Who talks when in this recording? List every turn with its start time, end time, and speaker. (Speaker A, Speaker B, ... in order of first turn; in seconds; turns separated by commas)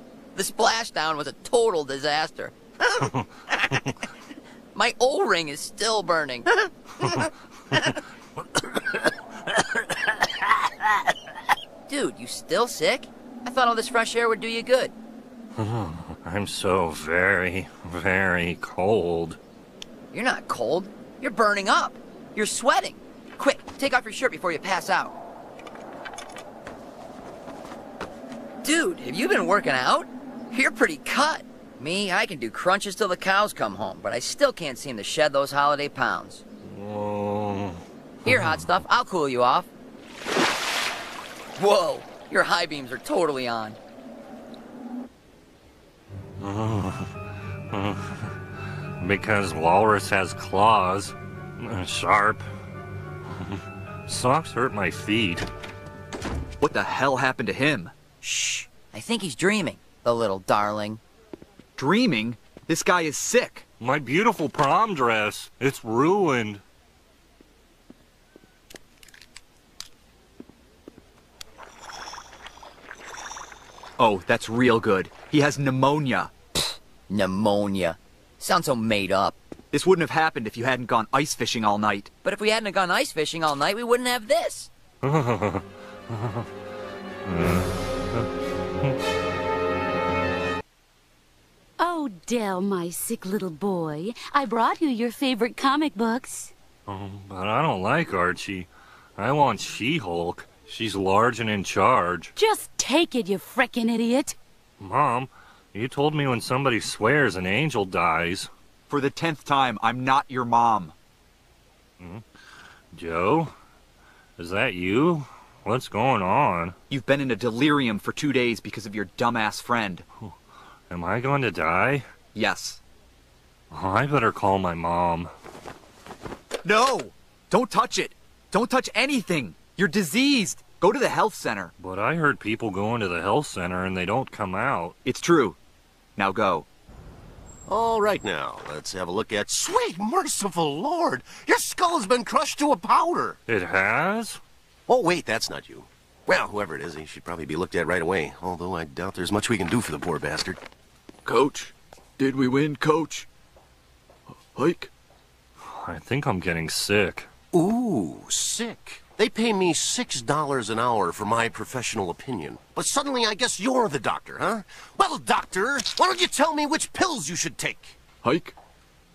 Speaker A: 0.3-3.9, Speaker A: 4.7-8.0, Speaker A: 11.9-14.9, Speaker B: 15.6-19.4, Speaker A: 20.1-25.1, Speaker A: 28.6-36.4, Speaker B: 36.6-38.7, Speaker A: 38.2-39.7, Speaker A: 41.6-43.8, Speaker B: 46.4-47.1, Speaker B: 47.7-48.3, Speaker B: 49.0-52.5, Speaker B: 53.3-55.5, Speaker C: 56.6-57.9, Speaker A: 58.2-61.0, Speaker C: 61.8-63.6, Speaker B: 63.8-66.6, Speaker C: 74.0-76.3, Speaker A: 77.1-79.4, Speaker C: 79.7-82.1, Speaker A: 82.2-84.7, Speaker B: 85.0-86.5, Speaker B: 87.2-88.2, Speaker D: 91.8-96.5, Speaker B: 96.9-102.3, Speaker D: 102.3-104.3, Speaker B: 104.8-108.5, Speaker C: 108.9-110.9, Speaker B: 112.9-113.5, Speaker B: 114.4-116.8, Speaker C: 116.9-120.0, Speaker B: 120.9-122.1, Speaker C: 122.3-122.8, Speaker B: 123.7-125.3, Speaker C: 126.6-131.7, Speaker B: 131.8-134.9, Speaker C: 135.0-135.6, Speaker C: 136.2-136.7, Speaker E: 137.7-143.4, Speaker B: 143.5-144.4, Speaker E: 144.9-150.6, Speaker F: 151.2-153.2, Speaker F: 154.5-154.9, Speaker B: 155.7-157.3, Speaker E: 157.5-167.9, Speaker F: 168.2-168.5